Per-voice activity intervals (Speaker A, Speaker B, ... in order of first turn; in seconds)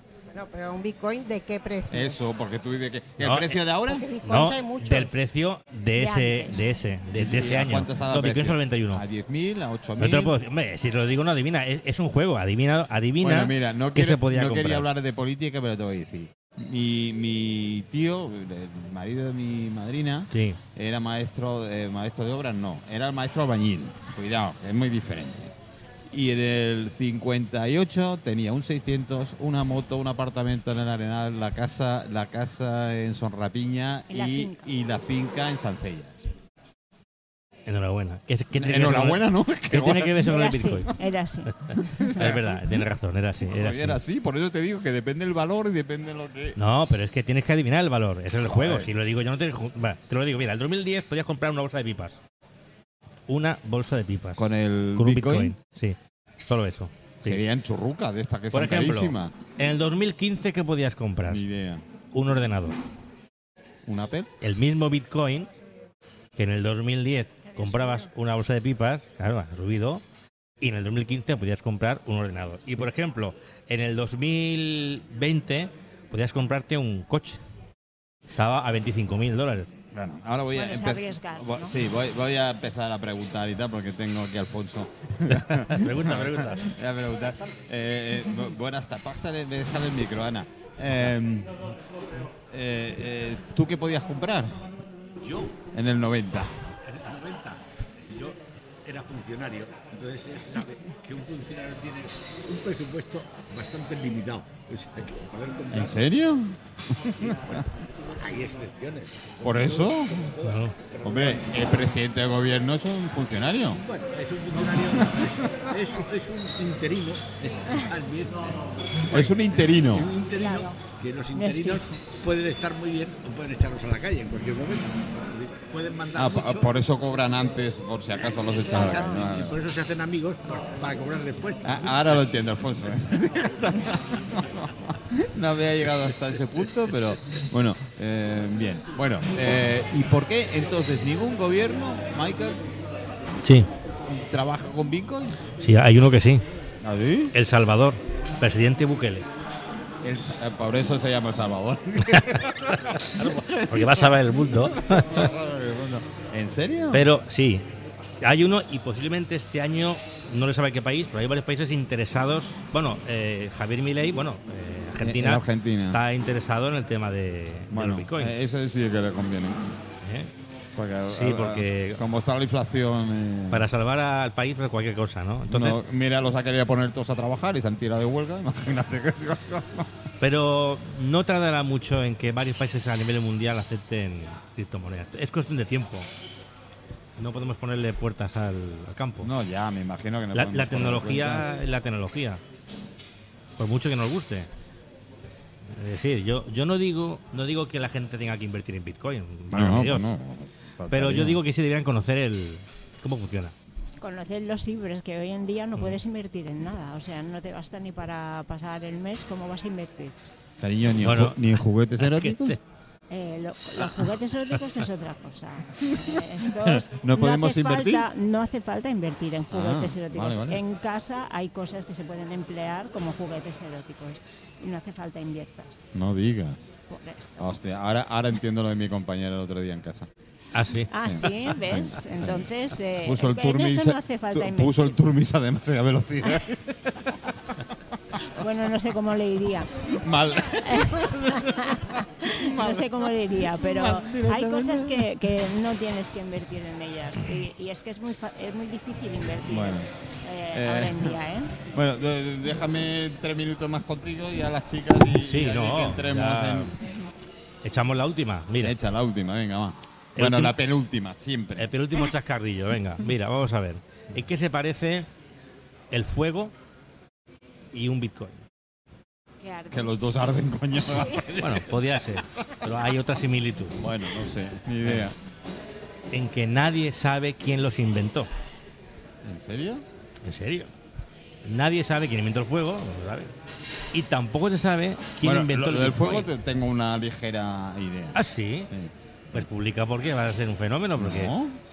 Speaker A: 0.3-2.2, 3.9-5.1
Speaker B: 1.9-4.1, 7.1-10.3, 13.2-25.5, 26.1-36.3, 38.5-40.3, 41.8-42.8, 43.4-46.6, 48.4-48.9, 54.4-55.5, 57.2-59.3, 61.2-61.9, 63.8-64.3, 79.9-91.6, 92.5-94.7, 95.7-96.6, 105.7-107.6, 109.4-110.2, 111.0-113.8, 114.9-115.7, 119.1-120.1, 126.2-129.6, 131.6-142.7, 144.1-145.5, 146.8-147.3, 150.0-157.1, 165.0-166.0, 167.7-169.8, 170.8-173.7, 175.5-179.9, 189.2-191.4, 199.5-201.4, 210.6-212.6, 213.8-214.1, 215.9-218.0, 219.5-220.6, 225.9-226.7, 227.3-230.1, 231.0-232.5, 233.0-237.6, 239.9-245.1, 249.5-249.9, 250.5-251.2, 251.7-256.7, 258.6-261.7, 269.7-272.2, 273.8-275.1, 279.2-279.8, 285.2-289.4, 290.9-291.6
Speaker C: 3.2-3.6, 4.2-9.0, 10.0-14.9, 20.3-20.6, 37.7-40.9, 41.5-44.0, 46.6-52.2, 53.3-57.4, 58.5-61.4, 62.1-62.8, 64.4-65.5, 66.4-70.0, 70.6-77.4, 78.3-79.7, 85.3-86.7, 110.4-110.7, 143.4-143.7, 145.6-146.4, 147.3-149.3, 152.1-152.4, 153.1-155.3, 156.9-157.6, 158.2-168.3, 170.0-170.3, 171.1-172.0, 173.5-175.8, 180.2-186.1, 187.2-189.3, 190.3-192.4, 193.6-194.5, 195.7-200.1, 200.9-203.5, 211.0-212.6, 230.5-230.9, 255.1-256.7, 257.6-258.7, 260.1-260.5, 261.6-265.1, 265.9-266.5, 267.7-268.4, 271.4-273.8, 274.8-275.1, 276.1-278.3, 280.2-280.7, 281.4-283.3, 283.9-286.3, 288.1-288.7, 289.3-291.3
Speaker D: 6.0-6.8, 34.1-34.7, 40.2-41.5, 80.5-81.8, 120.3-120.7, 121.3-121.8, 128.7-129.2, 204.0-210.1, 213.1-225.9, 226.9-227.3, 230.9-235.0, 238.3-239.9, 240.6-251.5, 269.4-269.9, 270.9-271.4
Speaker E: 95.2-95.6, 96.8-106.0, 107.2-107.6, 108.2-111.9, 113.7-126.7, 128.7-132.1